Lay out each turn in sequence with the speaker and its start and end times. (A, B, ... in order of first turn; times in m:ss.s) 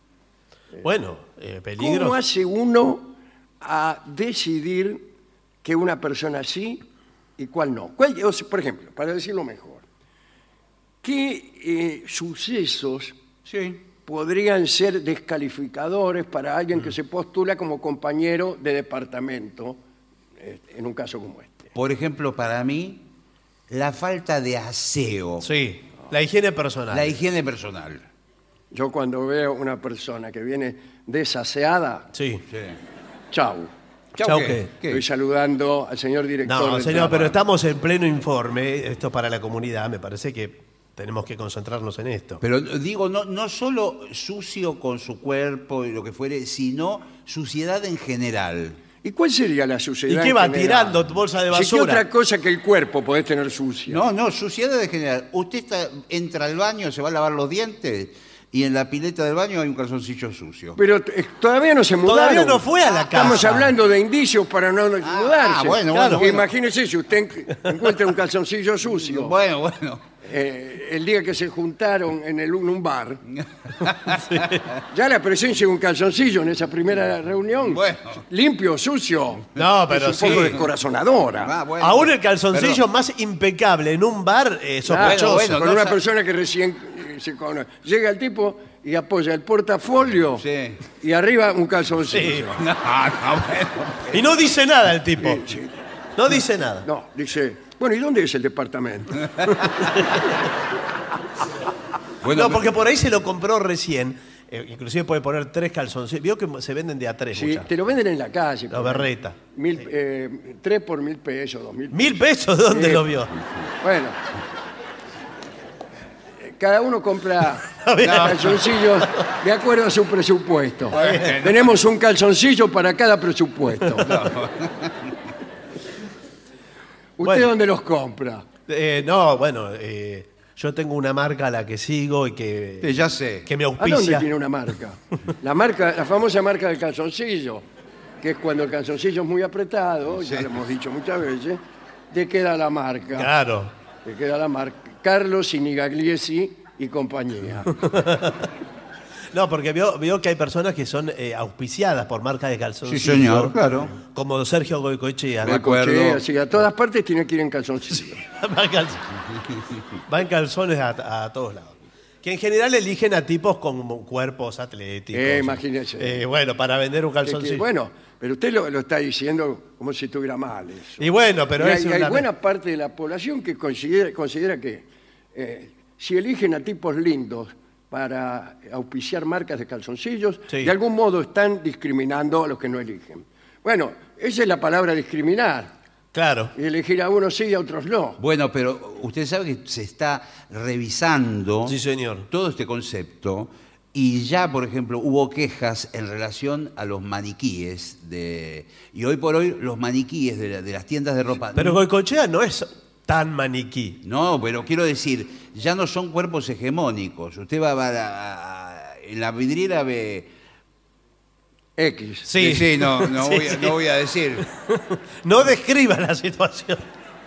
0:00.8-0:02.2 A
0:01.8-0:05.1 B
0:05.6-0:06.8 B
0:07.4-0:09.8 B
0:11.0-0:13.2 B
0:13.4-0:13.8 C
0:14.0-0:19.8 B
0:20.4-0:21.7 B
0:21.7-0:23.0 C
0:23.7-0:25.5 C
0:25.4-0:27.2 A
0:26.9-0:28.0 C
0:28.7-0:32.1 B
0:32.1-0:32.4 A
0:32.5-0:32.8 C
0:33.3-0:33.7 B
0:34.1-0:35.0 C
0:34.2-0:34.7 A
0:34.8-0:37.3 B
0:36.4-0:42.4 A
0:42.4-0:48.8 C
0:49.0-0:54.0 B
0:50.1-0:52.0 A
0:53.9-1:00.8 C
1:00.8-1:09.4 B
1:02.0-1:03.7 A
1:05.0-1:06.5 C
1:05.9-1:06.3 A
1:08.9-1:10.0 C
1:10.2-1:13.2 B
1:13.4-1:14.5 C
1:14.1-1:14.6 A
1:14.9-1:21.5 B
1:17.6-1:18.2 C
1:19.6-1:20.6 A
1:20.2-1:20.6 C
1:21.4-1:22.8 C
1:21.8-1:25.6 A
1:24.8-1:32.6 B
1:25.0-1:26.0 C
1:30.4-1:30.8 C
1:32.1-1:32.5 A
1:32.6-1:34.2 C
1:34.1-1:35.5 A
1:35.2-1:35.8 B
1:36.2-1:36.9 A
1:36.8-1:39.5 B
1:42.2-1:42.7 C
1:42.2-1:47.7 A
1:47.3-1:53.1 B
1:48.7-1:49.4 A
1:51.9-1:53.3 A
1:53.8-1:54.2 B
1:56.4-2:04.2 B
1:57.6-1:59.3 A
1:58.0-1:58.6 C
2:00.9-2:01.8 C
2:00.9-2:01.4 A
2:04.0-2:05.1 C
2:07.2-2:08.5 B
2:07.2-2:07.5 A
2:08.7-2:14.3 A
2:12.8-2:13.5 C
2:13.8-2:17.6 B
2:18.2-2:23.3 B
2:20.2-2:20.5 C
2:23.2-2:23.7 A
2:24.0-2:27.8 B
2:27.7-2:28.5 A
2:29.3-2:35.6 A
2:32.8-2:33.9 C
2:35.4-2:36.2 C
2:35.4-2:38.2 B
2:38.1-2:39.1 A
2:40.1-2:47.6 A
2:45.1-2:46.2 B
2:47.2-3:05.7 B
2:51.0-2:52.3 A
3:06.1-3:06.5 A
3:06.5-3:08.2 B
3:08.2-3:11.8 C
3:11.6-3:12.3 A
3:12.3-3:21.8 C
3:21.5-3:24.0 A
3:24.0-3:30.3 C
3:31.8-3:32.5 B
3:32.2-3:33.8 A
3:32.3-3:34.5 C
3:34.5-3:36.9 A